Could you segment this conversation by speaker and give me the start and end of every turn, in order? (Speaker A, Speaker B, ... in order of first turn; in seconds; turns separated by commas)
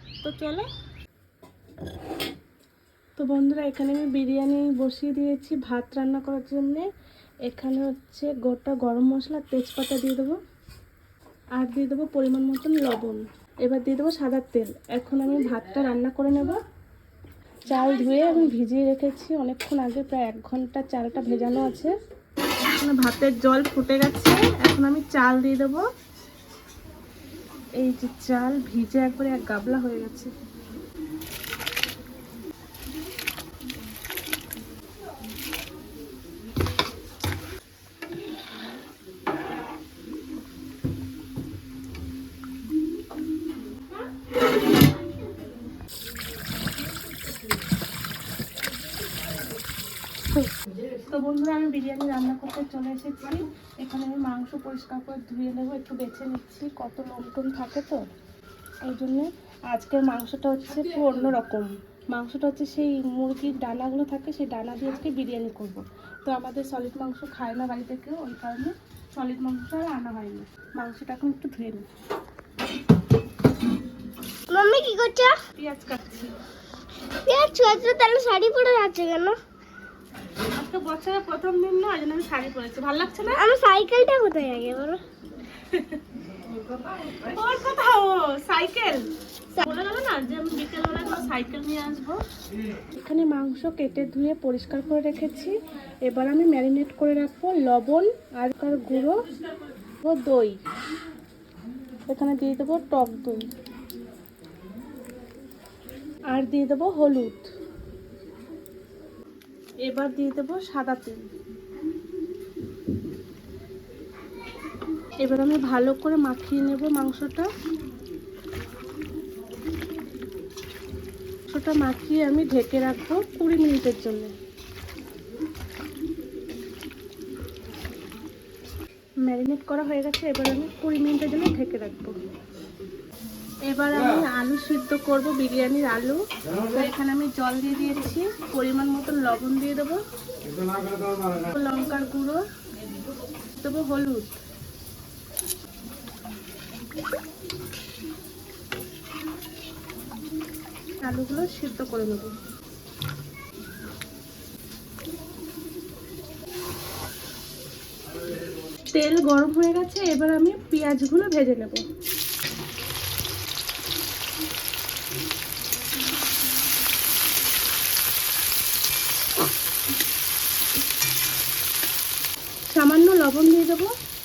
Speaker A: 0.2-0.7, Speaker A: 3.2-6.9, Speaker A: 7.5-10.4, Speaker A: 11.6-16.6, Speaker A: 17.6-21.9, Speaker A: 22.7-25.8, Speaker A: 27.8-30.3, Speaker A: 51.1-58.0, Speaker A: 58.8-71.8, Speaker B: 74.5-75.4, Speaker A: 75.5-76.3, Speaker B: 77.2-79.4, Speaker A: 80.5-83.5, Speaker B: 83.3-85.0, Speaker A: 85.6-86.0, Speaker A: 87.2-92.2, Speaker A: 92.9-99.2, Speaker A: 100.0-100.6, Speaker A: 102.1-103.5, Speaker A: 106.3-107.5, Speaker A: 109.8-111.2, Speaker A: 115.2-117.5, Speaker A: 121.5-124.3, Speaker A: 129.2-132.2, Speaker A: 133.7-140.0, Speaker A: 141.5-142.4, Speaker A: 143.6-144.3, Speaker A: 151.0-152.3, Speaker A: 158.9-161.8, Speaker A: 172.7-173.9